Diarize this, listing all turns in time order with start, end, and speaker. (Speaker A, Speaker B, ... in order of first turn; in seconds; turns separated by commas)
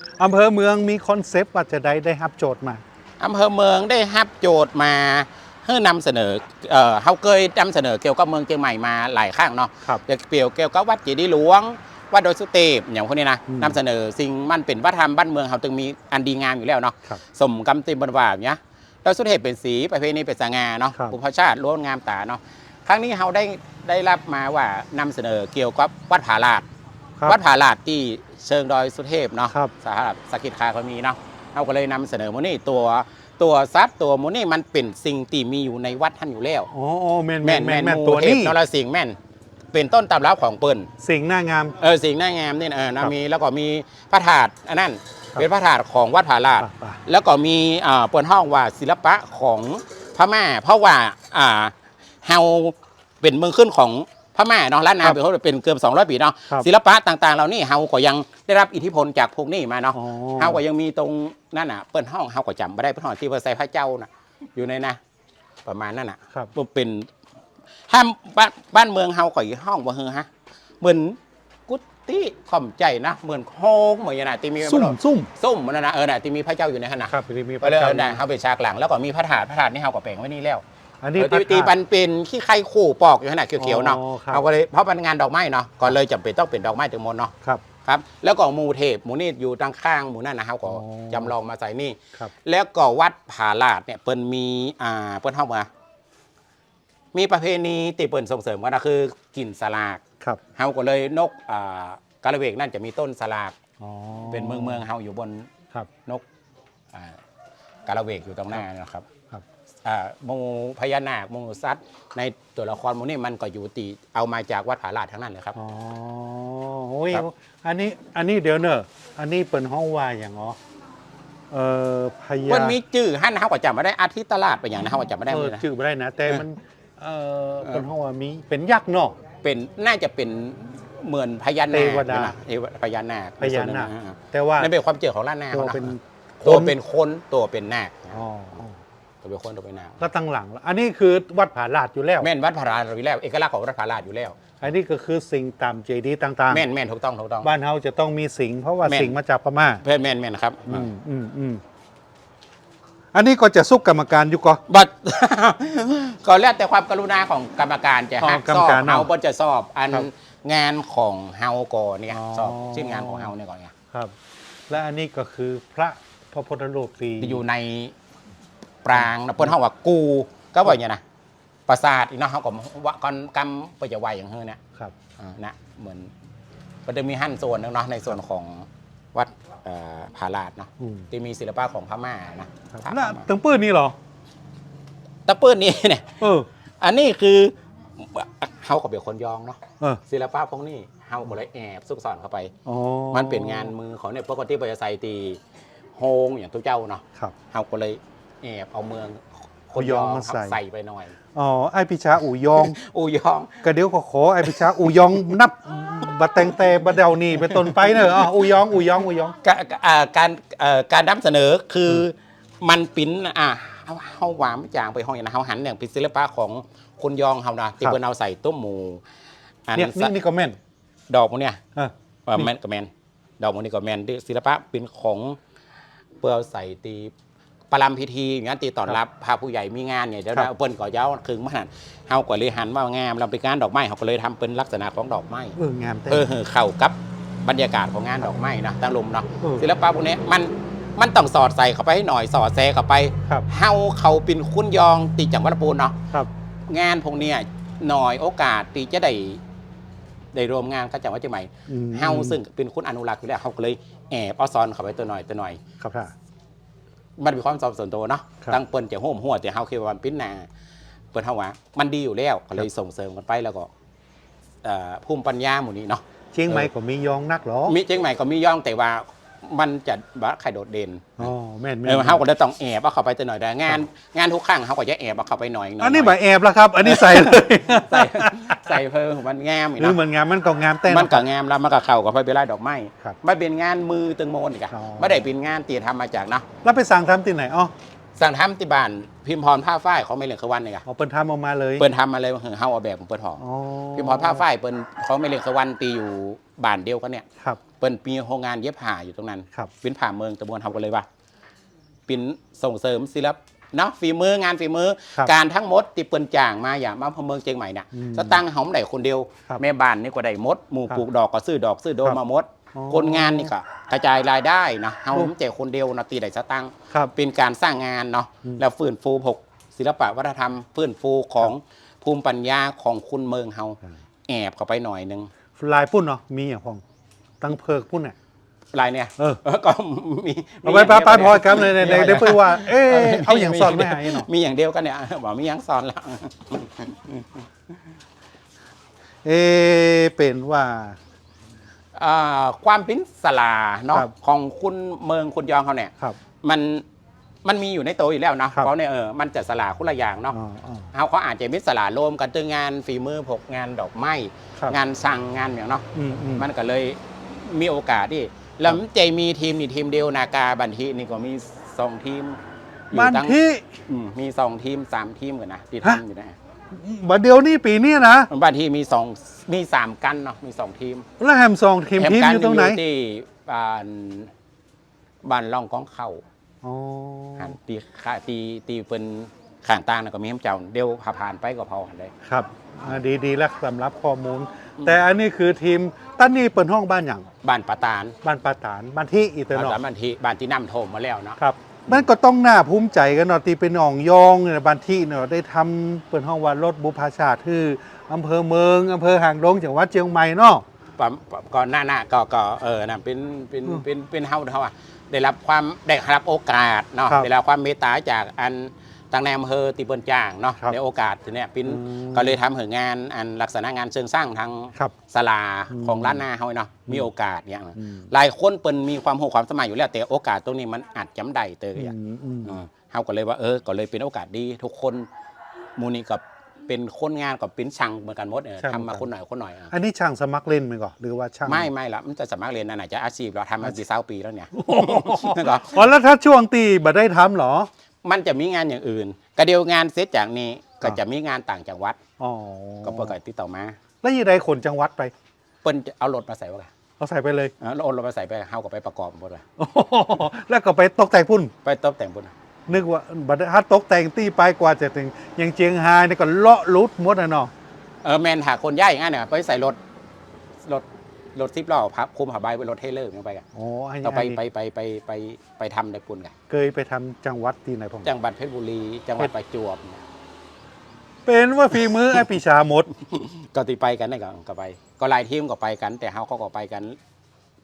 Speaker A: 0.2-2.8, Speaker B: 3.2-26.6, Speaker A: 13.5-13.8, Speaker B: 27.2-36.7, Speaker A: 36.7-38.6, Speaker B: 37.4-39.2, Speaker B: 39.7-40.9, Speaker A: 41.0-41.8, Speaker B: 41.8-65.0, Speaker A: 46.6-47.0, Speaker A: 59.9-60.6, Speaker B: 65.7-67.1, Speaker B: 67.9-70.3, Speaker B: 70.8-80.6, Speaker A: 74.6-75.3, Speaker A: 77.1-78.2, Speaker A: 81.0-81.7, Speaker B: 81.2-87.3, Speaker A: 83.6-84.4, Speaker B: 87.8-95.7, Speaker A: 90.7-91.3, Speaker B: 97.1-100.0, Speaker B: 100.6-103.6, Speaker A: 103.8-104.8, Speaker B: 104.3-105.5, Speaker B: 106.9-107.2, Speaker B: 107.9-109.1, Speaker B: 109.8-115.5, Speaker A: 115.5-120.6, Speaker A: 121.5-122.8, Speaker B: 122.4-125.6, Speaker A: 125.3-129.2, Speaker B: 129.4-138.2, Speaker A: 131.7-132.4, Speaker A: 133.4-134.7, Speaker A: 135.5-136.7, Speaker A: 138.1-138.8, Speaker B: 139.2-140.0, Speaker A: 140.0-142.3, Speaker B: 142.2-144.4, Speaker A: 144.6-146.6, Speaker B: 146.5-147.5, Speaker A: 147.4-149.8, Speaker B: 148.8-149.2, Speaker B: 149.8-150.9, Speaker A: 150.7-151.6, Speaker A: 153.1-154.7, Speaker B: 154.7-163.7, Speaker A: 158.2-159.1, Speaker A: 162.1-163.3, Speaker A: 164.7-167.4, Speaker B: 167.2-167.9, Speaker B: 168.8-171.0, Speaker B: 171.7-174.6, Speaker B: 175.2-176.1, Speaker B: 176.9-183.3, Speaker A: 180.8-181.1, Speaker A: 182.7-183.9, Speaker B: 185.3-186.2, Speaker A: 186.2-186.5, Speaker B: 186.8-192.5, Speaker A: 192.7-193.7, Speaker B: 193.1-195.4, Speaker B: 195.9-201.2, Speaker A: 199.8-200.6, Speaker A: 201.3-202.8, Speaker B: 202.5-203.6, Speaker A: 203.6-209.3, Speaker B: 204.4-205.5, Speaker B: 206.0-208.3, Speaker B: 209.4-219.0, Speaker B: 219.7-220.1, Speaker A: 219.8-220.6, Speaker B: 221.1-221.6, Speaker A: 221.8-222.5, Speaker B: 222.3-225.4, Speaker B: 226.2-227.1, Speaker B: 227.7-235.6, Speaker A: 235.6-236.3, Speaker B: 236.1-246.0, Speaker B: 246.7-249.4, Speaker B: 250.3-255.6, Speaker A: 251.7-252.4, Speaker A: 255.8-256.1, Speaker B: 257.2-260.5, Speaker B: 261.1-263.7, Speaker B: 264.6-266.7, Speaker A: 266.3-267.8, Speaker B: 267.7-271.3, Speaker A: 271.2-272.2, Speaker B: 271.9-276.2, Speaker A: 275.8-278.8, Speaker B: 276.8-280.0, Speaker A: 279.8-281.3, Speaker B: 280.9-286.4, Speaker A: 284.7-285.3, Speaker A: 286.6-287.7, Speaker B: 288.2-290.8, Speaker A: 290.9-291.9, Speaker B: 291.8-293.4, Speaker A: 293.4-294.4, Speaker B: 293.9-297.2, Speaker B: 297.8-301.1, Speaker B: 302.1-325.3, Speaker A: 307.9-308.4, Speaker A: 312.8-313.5, Speaker A: 325.6-326.8, Speaker A: 327.4-328.1, Speaker B: 328.7-337.4, Speaker A: 330.6-334.3, Speaker A: 339.2-341.0, Speaker B: 341.9-346.9, Speaker B: 347.4-350.4, Speaker A: 350.3-350.9, Speaker B: 350.9-355.9, Speaker A: 355.9-356.5, Speaker B: 356.4-366.4, Speaker A: 362.9-363.7, Speaker A: 366.7-368.3, Speaker B: 368.3-371.1, Speaker A: 371.2-372.8, Speaker B: 372.0-374.3, Speaker B: 375.2-376.2, Speaker A: 376.6-377.5, Speaker B: 377.4-382.1, Speaker A: 382.2-387.3, Speaker B: 387.4-388.1, Speaker A: 388.2-389.8, Speaker B: 389.5-392.1, Speaker A: 391.4-400.6, Speaker B: 401.0-425.1, Speaker A: 411.7-412.4, Speaker A: 415.7-416.2, Speaker A: 417.8-418.1, Speaker A: 421.8-422.6, Speaker B: 425.8-429.7, Speaker A: 428.6-429.1, Speaker A: 429.7-431.7, Speaker B: 431.5-435.8, Speaker A: 434.5-437.7, Speaker B: 438.0-442.0, Speaker A: 442.2-443.1, Speaker B: 442.8-443.8, Speaker A: 444.0-445.1, Speaker B: 445.6-446.7, Speaker A: 447.0-447.5, Speaker B: 447.6-449.4, Speaker A: 449.6-451.5, Speaker B: 451.6-452.3, Speaker A: 452.7-457.5, Speaker B: 458.0-459.8, Speaker B: 460.6-463.4, Speaker A: 463.6-464.4, Speaker B: 464.0-466.3, Speaker A: 466.5-468.1, Speaker B: 468.0-470.0, Speaker A: 471.3-472.9, Speaker B: 471.7-472.2, Speaker B: 473.0-477.0